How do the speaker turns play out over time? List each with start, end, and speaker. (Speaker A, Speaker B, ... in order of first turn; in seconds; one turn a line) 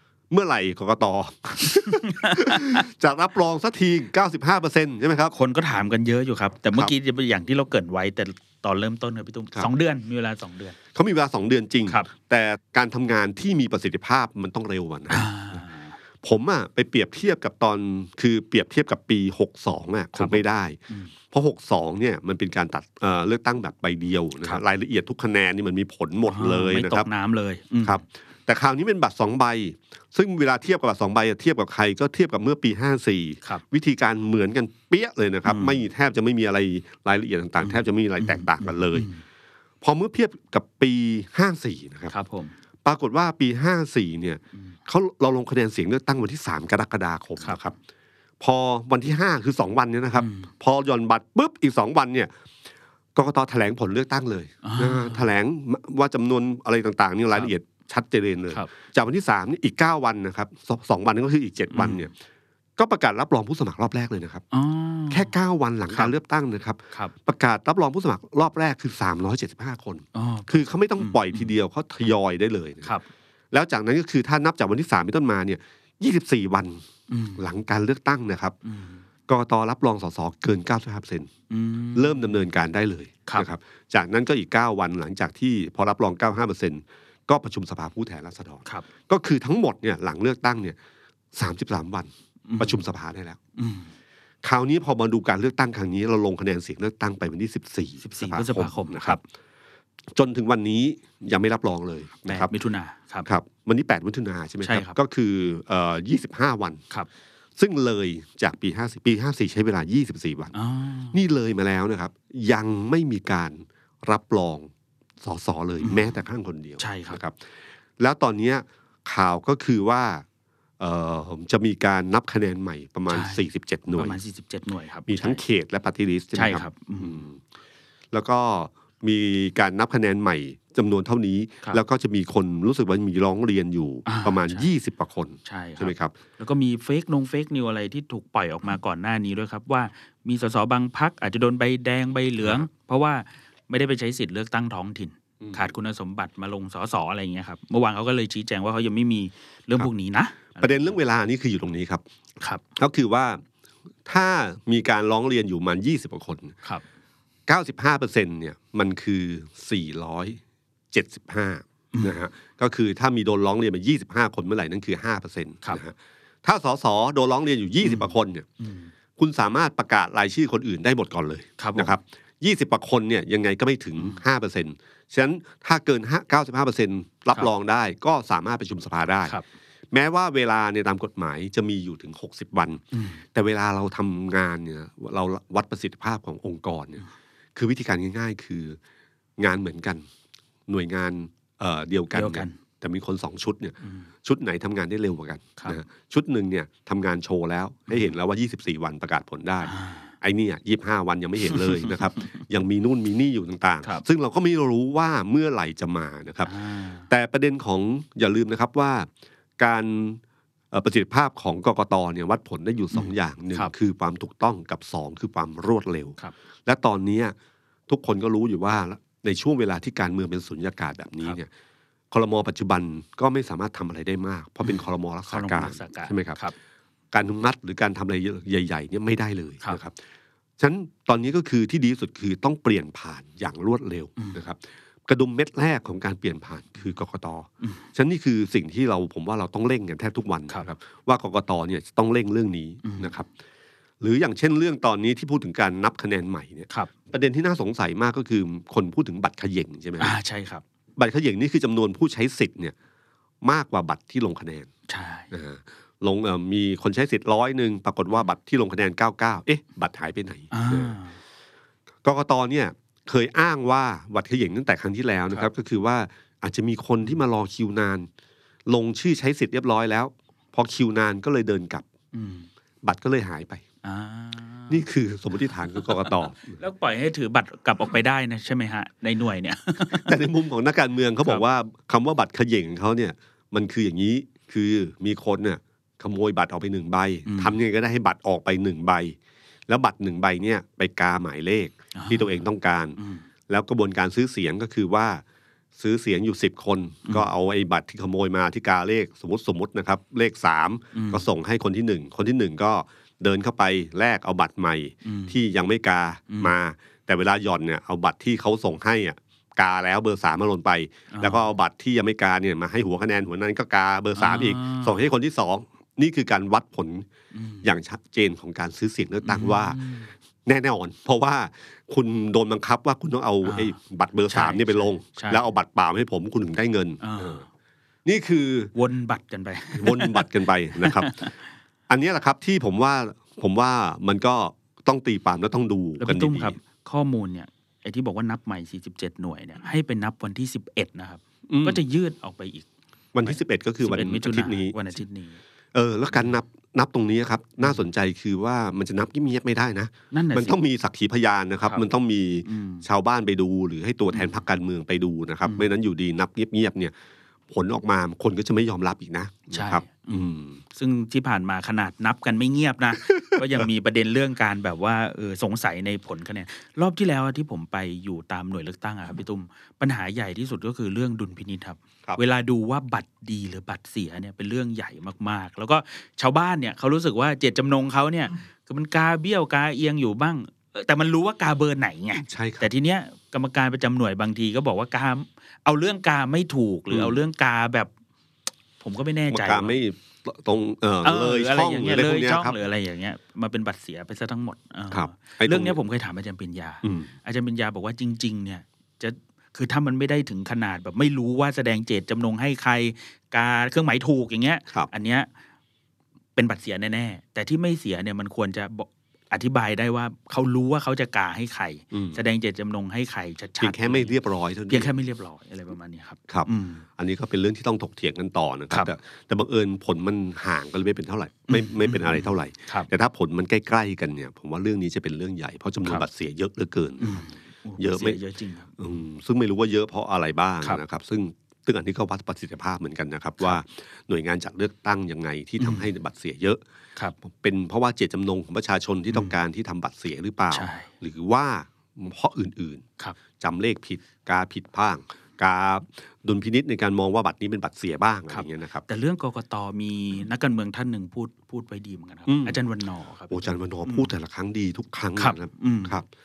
Speaker A: 0.3-5.3
Speaker B: 1.7-2.8
Speaker B: 5.3-10.8
Speaker A: 10.9-15.6
Speaker B: 15.1-16.0
Speaker A: 16.2-20.8
Speaker B: 20.1-21.1
Speaker A: 21.3-27.1
Speaker B: 26.3-28.0
Speaker A: 27.8-39.1
Speaker B: 35.5-35.9
Speaker B: 37.6-39.2
Speaker A: 39.8-42.1
Speaker B: 42.1-42.5
Speaker A: 42.9-47.8
Speaker A: 48.4-52.3
Speaker B: 50.2-50.5
Speaker A: 53.1-62.1
Speaker B: 54.6-55.3
Speaker B: 61.7-62.1
Speaker A: 62.8-64.4
Speaker B: 64.5-65.3
Speaker A: 65.1-72.9
Speaker B: 70.2-71.5
Speaker A: 73.5-76.8
Speaker B: 77.1-77.4
Speaker A: 77.4-78.5
Speaker B: 78.7-79.0
Speaker A: 79.3-81.3
Speaker B: 81.5-82.4
Speaker A: 81.9-90.8
Speaker A: 91.3-93.4
Speaker B: 92.5-92.8
Speaker B: 93.6-93.9
Speaker A: 94.4-99.2
Speaker B: 98.0-99.2
Speaker A: 100.1-102.5
Speaker B: 102.2-103.3
Speaker A: 103.2-106.8
Speaker B: 104.6-105.0
Speaker A: 107.6-110.5
Speaker B: 110.5-111.2
Speaker A: 111.1-117.4
Speaker B: 115.8-116.2
Speaker B: 116.8-117.2
Speaker A: 118.0-120.2
Speaker A: 120.8-124.2
Speaker B: 123.1-123.4
Speaker B: 123.9-125.4
Speaker A: 125.1-127.4
Speaker B: 126.3-127.2
Speaker A: 128.1-136.2
Speaker B: 134.1-134.7
Speaker B: 135.4-151.0
Speaker A: 142.4-142.7
Speaker A: 145.4-145.7
Speaker A: 150.6-152.0
Speaker A: 152.8-153.4
Speaker A: 154.1-156.6
Speaker A: 157.5-160.4
Speaker A: 160.9-168.5
Speaker B: 161.9-162.2
Speaker B: 167.8-168.9
Speaker A: 169.2-179.4
Speaker B: 171.6-171.9
Speaker A: 179.9-187.0
Speaker B: 182.9-183.2
Speaker A: 187.6-188.8
Speaker A: 189.4-190.1
Speaker A: 190.7-206.6
Speaker B: 192.1-192.6
Speaker B: 193.8-194.1
Speaker B: 199.7-200.1
Speaker B: 201.5-202.4
Speaker B: 206.4-207.1
Speaker A: 207.1-210.2
Speaker A: 210.7-217.3
Speaker B: 212.9-213.7
Speaker A: 217.9-221.5
Speaker A: 222.1-226.4
Speaker B: 224.6-226.6
Speaker A: 227.1-230.0
Speaker A: 230.6-243.3
Speaker B: 242.8-243.1
Speaker A: 244.0-250.2
Speaker B: 250.0-250.6
Speaker A: 251.0-252.8
Speaker A: 253.4-254.7
Speaker B: 254.9-255.3
Speaker A: 255.3-261.0
Speaker B: 260.5-261.2
Speaker A: 262.0-268.1
Speaker A: 268.7-271.9
Speaker B: 272.1-272.5
Speaker A: 272.8-273.6
Speaker B: 273.8-274.9
Speaker A: 274.7-276.6
Speaker B: 275.7-280.2
Speaker A: 279.9-289.2
Speaker B: 287.3-287.6
Speaker A: 289.7-293.0
Speaker B: 291.9-292.4
Speaker B: 293.0-293.2
Speaker A: 293.5-295.2
Speaker A: 295.8-317.1
Speaker B: 300.9-301.3
Speaker B: 305.0-305.4
Speaker B: 311.1-311.5
Speaker B: 314.1-315.0
Speaker B: 317.3-317.7
Speaker A: 317.6-319.9
Speaker B: 319.2-320.1
Speaker A: 320.5-327.4
Speaker B: 323.4-323.8
Speaker B: 324.3-325.4
Speaker B: 327.0-327.5
Speaker A: 328.1-328.7
Speaker B: 328.8-331.4
Speaker A: 329.7-331.3
Speaker A: 331.9-336.6
Speaker B: 336.0-342.7
Speaker A: 341.5-341.8
Speaker A: 343.1-344.8
Speaker B: 343.2-345.4
Speaker A: 345.7-356.9
Speaker B: 350.1-350.6
Speaker B: 352.4-352.9
Speaker B: 354.1-354.4
Speaker A: 357.5-360.6
Speaker B: 359.5-387.9
Speaker A: 363.1-363.6
Speaker A: 382.2-382.7
Speaker A: 386.9-387.2
Speaker B: 388.8-389.8
Speaker A: 389.3-392.6
Speaker B: 391.0-405.3
Speaker A: 394.9-395.8
Speaker A: 396.8-397.1
Speaker B: 406.4-414.1
Speaker A: 411.9-412.2
Speaker A: 413.6-414.9
Speaker B: 414.7-416.9
Speaker A: 416.3-428.2
Speaker B: 421.5-422.9
Speaker B: 427.0-428.8
Speaker A: 428.8-436.6
Speaker B: 435.6-435.9
Speaker A: 437.2-442.9
Speaker B: 440.5-440.9
Speaker A: 443.4-448.9
Speaker B: 448.3-454.1
Speaker A: 452.3-452.6
Speaker A: 453.3-456.1
Speaker B: 455.2-456.0